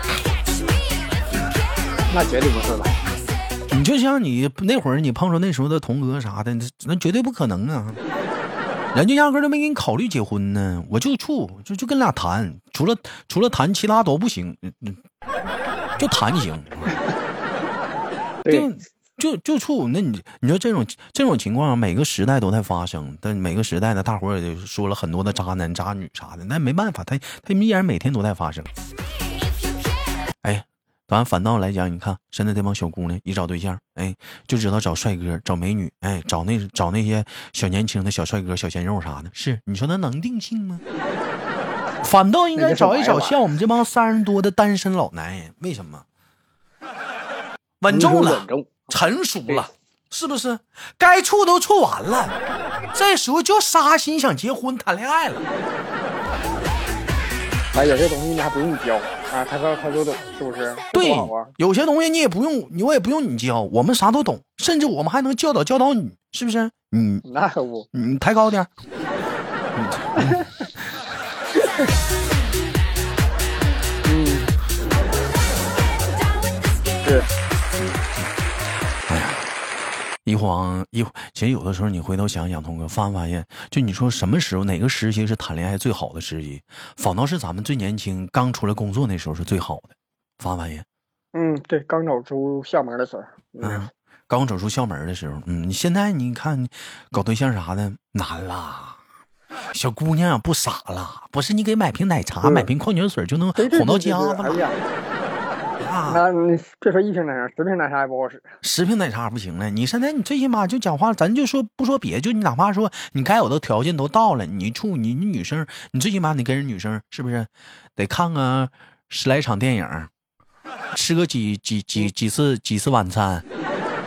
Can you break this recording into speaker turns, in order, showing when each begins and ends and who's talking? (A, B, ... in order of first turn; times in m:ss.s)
0:02.1-0:03.0 A
0:03.7-0:08.0 B
0:08.9-0:15.0 B
0:16.0-0:17.0 B
0:18.5-0:28.7 B
0:30.4-0:40.8 B
0:42.0-0:46.0 B
0:42.6-0:43.4 A
0:47.8-0:52.4 B
0:47.9-0:48.9 A
0:52.9-0:55.4 B
0:57.7-1:01.5 A
1:00.9-1:07.2 B
1:07.2-1:07.9 A
1:07.9-1:08.7 B
1:09.8-1:10.5 B
1:14.0-1:14.5 A
1:17.8-1:18.1 B
1:19.1-1:19.5 B
1:20.3-1:30.8 B
1:31.3-1:33.9 A
1:33.6-1:39.0 B
1:39.7-1:44.6 B
1:42.4-1:42.7 A
1:43.6-1:44.8 A
1:45.8-1:46.2 B
1:46.1-1:48.5 A
1:48.6-2:00.1 B
2:00.9-2:03.4 B